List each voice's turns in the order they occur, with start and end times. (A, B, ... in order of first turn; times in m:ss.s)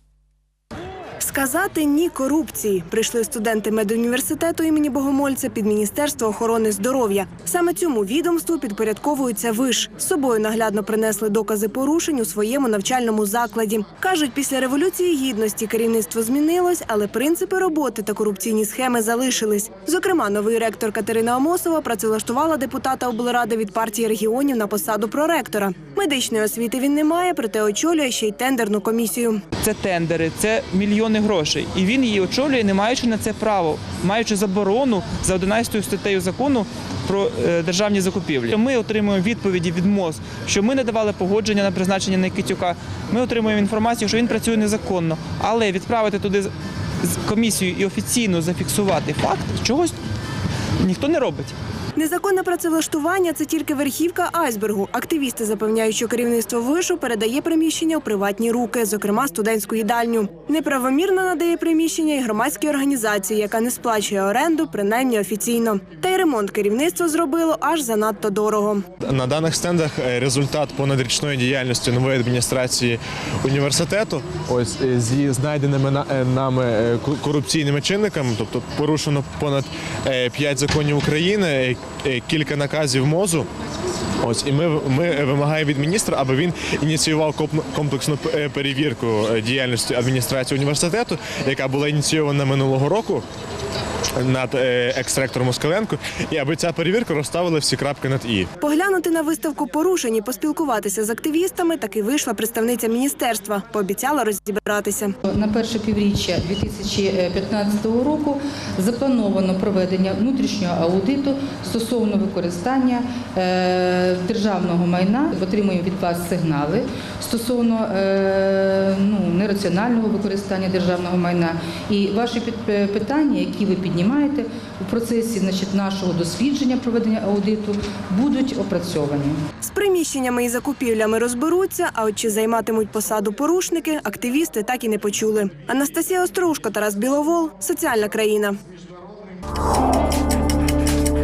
0:01.2-0:29.4 A
0:29.6-0:50.0 B
0:50.8-0:51.6 B
0:52.0-1:08.8 A
1:09.0-1:23.5 C
1:24.2-1:33.2 C
1:34.2-1:38.5 C
1:38.6-1:45.1 A
1:45.3-2:09.4 D
2:09.6-2:18.6 A